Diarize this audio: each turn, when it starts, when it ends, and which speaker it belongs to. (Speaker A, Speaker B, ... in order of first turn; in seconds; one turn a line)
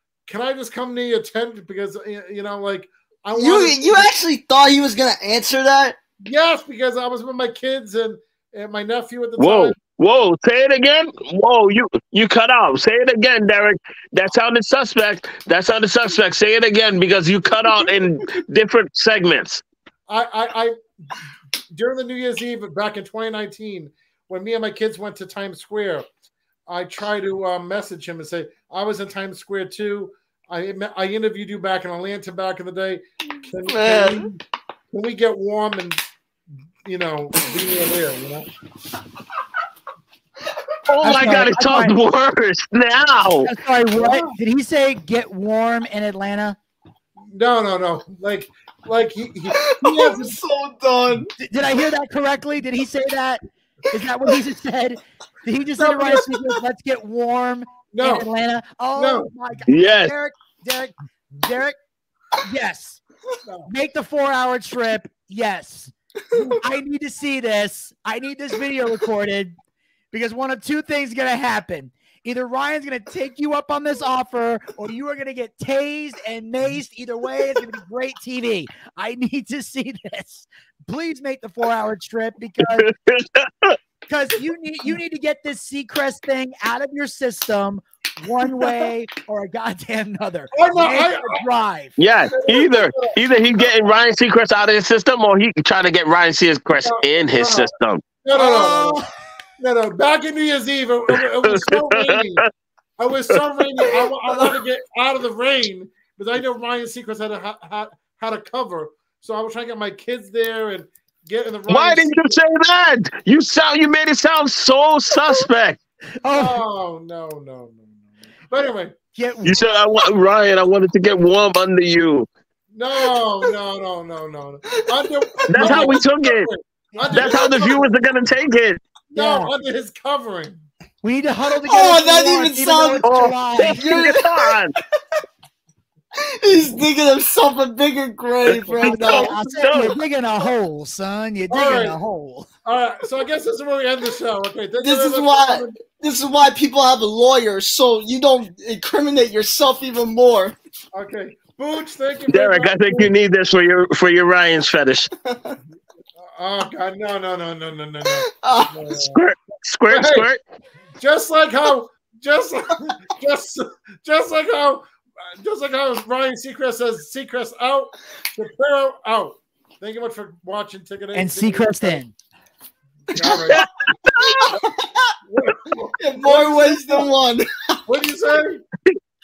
Speaker A: 0.3-4.1
Speaker B: 3.3-6.0
Speaker A: 6.2-9.8
Speaker C: 9.4-19.6
Speaker A: 20.1-20.8
Speaker A: 21.7-26.1
Speaker A: 26.7-34.4
Speaker B: 33.6-34.2
Speaker A: 34.9-36.0
Speaker A: 36.8-38.5
Speaker C: 40.9-43.5
Speaker D: 41.0-41.9
Speaker D: 43.4-46.6
Speaker A: 43.9-44.3
Speaker A: 47.3-50.4
Speaker B: 49.5-51.3
Speaker D: 51.4-61.8
Speaker A: 55.8-56.2
Speaker A: 57.9-58.3
Speaker A: 59.0-59.3
Speaker C: 59.7-60.1
Speaker D: 62.4-63.0
Speaker A: 63.5-63.7
Speaker D: 63.7-65.9
Speaker D: 66.5-69.5
Speaker D: 70.1-82.9
Speaker C: 82.7-83.8
Speaker D: 84.1-92.0
Speaker A: 90.5-91.4
Speaker C: 92.0-98.0
Speaker A: 92.3-93.6
Speaker A: 96.8-97.7
Speaker A: 98.2-99.0
Speaker D: 98.3-99.1
Speaker A: 99.6-102.4
Speaker C: 101.4-102.4
Speaker A: 103.0-112.3
Speaker C: 111.7-115.8
Speaker D: 116.2-116.6
Speaker A: 116.3-118.9
Speaker D: 119.1-119.6
Speaker C: 119.4-122.3
Speaker A: 122.7-128.0
Speaker B: 124.8-125.9
Speaker C: 125.5-126.5
Speaker D: 125.6-125.9
Speaker D: 126.9-127.7
Speaker C: 127.1-128.8
Speaker A: 129.1-130.6
Speaker D: 129.1-129.5
Speaker D: 131.0-133.9
Speaker B: 131.4-134.6
Speaker C: 133.0-134.8
Speaker B: 136.2-139.3
Speaker A: 138.7-139.6
Speaker D: 138.8-142.5
Speaker C: 139.4-139.9
Speaker A: 141.5-142.0
Speaker A: 142.6-145.7
Speaker B: 144.8-150.6
Speaker A: 150.9-153.1
Speaker C: 152.3-155.1
Speaker B: 155.2-155.6
Speaker A: 156.2-159.2
Speaker B: 158.1-159.0
Speaker C: 159.1-160.4
Speaker A: 159.9-160.3
Speaker A: 161.0-164.8
Speaker A: 165.4-172.0
Speaker D: 171.1-172.1
Speaker A: 173.1-173.7
Speaker B: 173.1-173.6
Speaker C: 173.5-174.2
Speaker B: 174.2-175.1
Speaker A: 175.3-177.1
Speaker B: 176.0-177.8
Speaker A: 177.9-178.6